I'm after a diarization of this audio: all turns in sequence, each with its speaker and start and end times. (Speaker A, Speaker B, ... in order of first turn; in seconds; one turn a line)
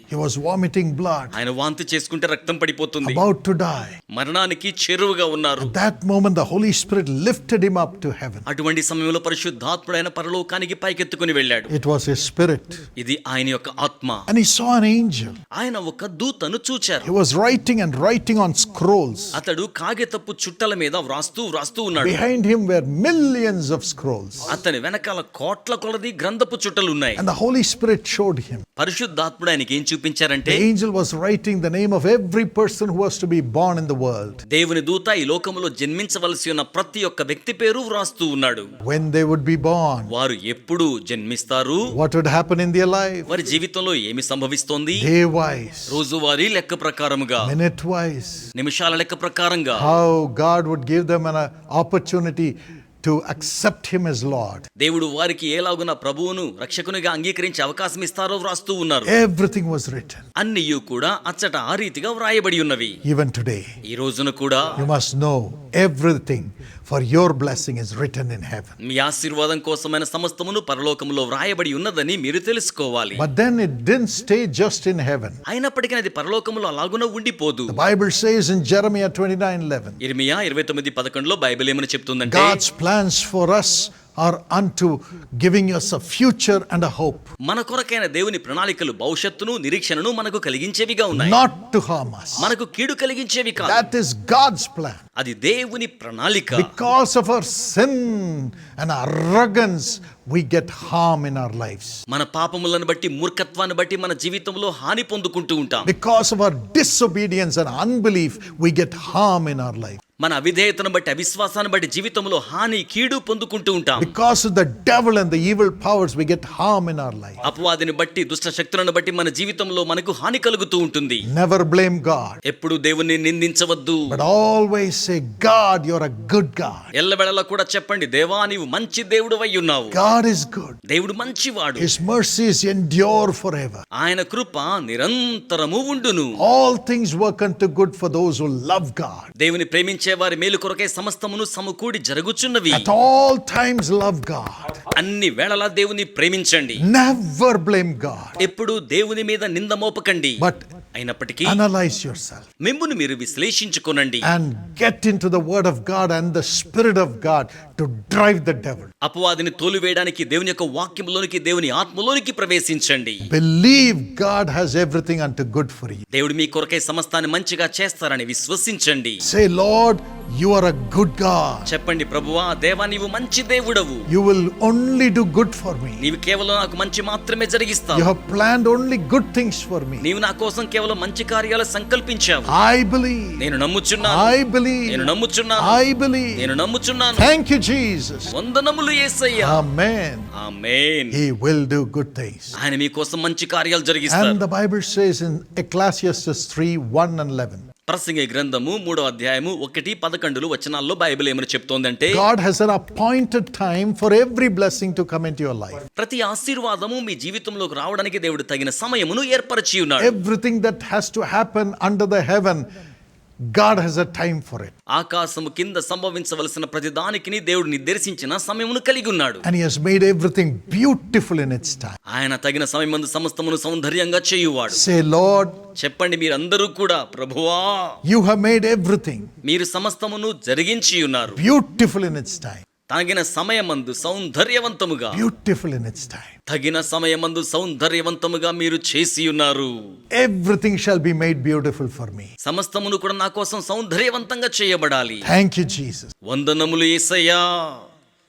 Speaker A: 0.1-1.3
Speaker B: 1.3-3.2
Speaker A: 3.0-4.0
Speaker B: 4.1-5.7
Speaker A: 5.6-8.5
Speaker B: 8.5-11.7
Speaker A: 11.7-12.9
Speaker B: 13.0-14.3
Speaker A: 14.3-15.3
Speaker B: 15.5-17.1
Speaker A: 17.0-19.4
Speaker B: 19.3-22.2
Speaker A: 22.0-24.6
Speaker B: 24.5-27.2
Speaker A: 27.2-28.6
Speaker B: 28.8-30.7
Speaker A: 30.4-34.4
Speaker B: 34.5-38.7
Speaker A: 38.9-40.1
Speaker B: 40.1-41.9
Speaker A: 41.9-43.3
Speaker B: 43.3-45.1
Speaker A: 45.0-46.0
Speaker B: 45.9-47.6
Speaker A: 47.4-48.5
Speaker B: 48.5-49.9
Speaker A: 49.8-54.6
Speaker B: 54.8-59.1
Speaker A: 59.0-60.2
Speaker B: 60.4-63.0
Speaker A: 63.0-63.7
Speaker B: 63.9-64.8
Speaker A: 64.8-68.8
Speaker B: 68.8-73.3
Speaker A: 73.2-75.4
Speaker B: 75.5-77.8
Speaker A: 77.7-80.0
Speaker B: 80.0-82.6
Speaker A: 82.3-87.3
Speaker B: 87.4-91.4
Speaker A: 91.1-92.5
Speaker B: 92.4-93.9
Speaker A: 93.6-95.0
Speaker B: 95.2-96.7
Speaker A: 96.5-102.0
Speaker B: 102.1-105.9
Speaker A: 105.8-110.0
Speaker B: 110.2-114.1
Speaker A: 114.0-117.4
Speaker B: 117.4-121.2
Speaker A: 121.3-122.4
Speaker B: 122.5-124.2
Speaker A: 124.1-126.9
Speaker B: 126.9-130.0
Speaker A: 129.9-130.8
Speaker B: 130.9-132.0
Speaker A: 131.8-133.8
Speaker B: 134.0-136.4
Speaker A: 136.4-139.3
Speaker B: 139.4-142.9
Speaker A: 142.7-144.8
Speaker B: 144.9-146.8
Speaker A: 146.8-148.4
Speaker B: 148.4-151.6
Speaker A: 150.4-150.7
Speaker A: 151.4-152.5
Speaker B: 152.6-154.3
Speaker A: 154.2-158.9
Speaker B: 159.0-163.3
Speaker A: 163.2-166.1
Speaker B: 166.1-169.2
Speaker A: 169.2-171.7
Speaker B: 171.7-174.1
Speaker A: 174.1-176.0
Speaker B: 176.0-178.1
Speaker A: 177.9-180.1
Speaker B: 180.0-182.5
Speaker A: 182.5-183.4
Speaker B: 183.4-184.3
Speaker A: 184.0-186.4
Speaker B: 184.9-185.8
Speaker B: 186.3-187.3
Speaker A: 187.2-188.3
Speaker B: 188.3-189.6
Speaker A: 189.4-190.3
Speaker B: 190.4-191.2
Speaker A: 191.1-192.6
Speaker B: 192.5-194.4
Speaker A: 194.1-197.6
Speaker B: 197.9-202.2
Speaker A: 202.1-205.8
Speaker B: 206.0-210.2
Speaker A: 210.0-212.7
Speaker A: 213.5-214.7
Speaker B: 214.9-219.4
Speaker A: 219.4-222.0
Speaker B: 222.1-224.8
Speaker A: 224.7-225.6
Speaker B: 225.8-228.0
Speaker A: 228.1-229.3
Speaker B: 229.4-231.4
Speaker A: 231.3-232.7
Speaker B: 232.9-235.2
Speaker A: 235.1-236.3
Speaker B: 236.5-239.7
Speaker A: 240.1-242.3
Speaker B: 242.4-245.3
Speaker A: 245.2-246.1
Speaker B: 246.3-247.8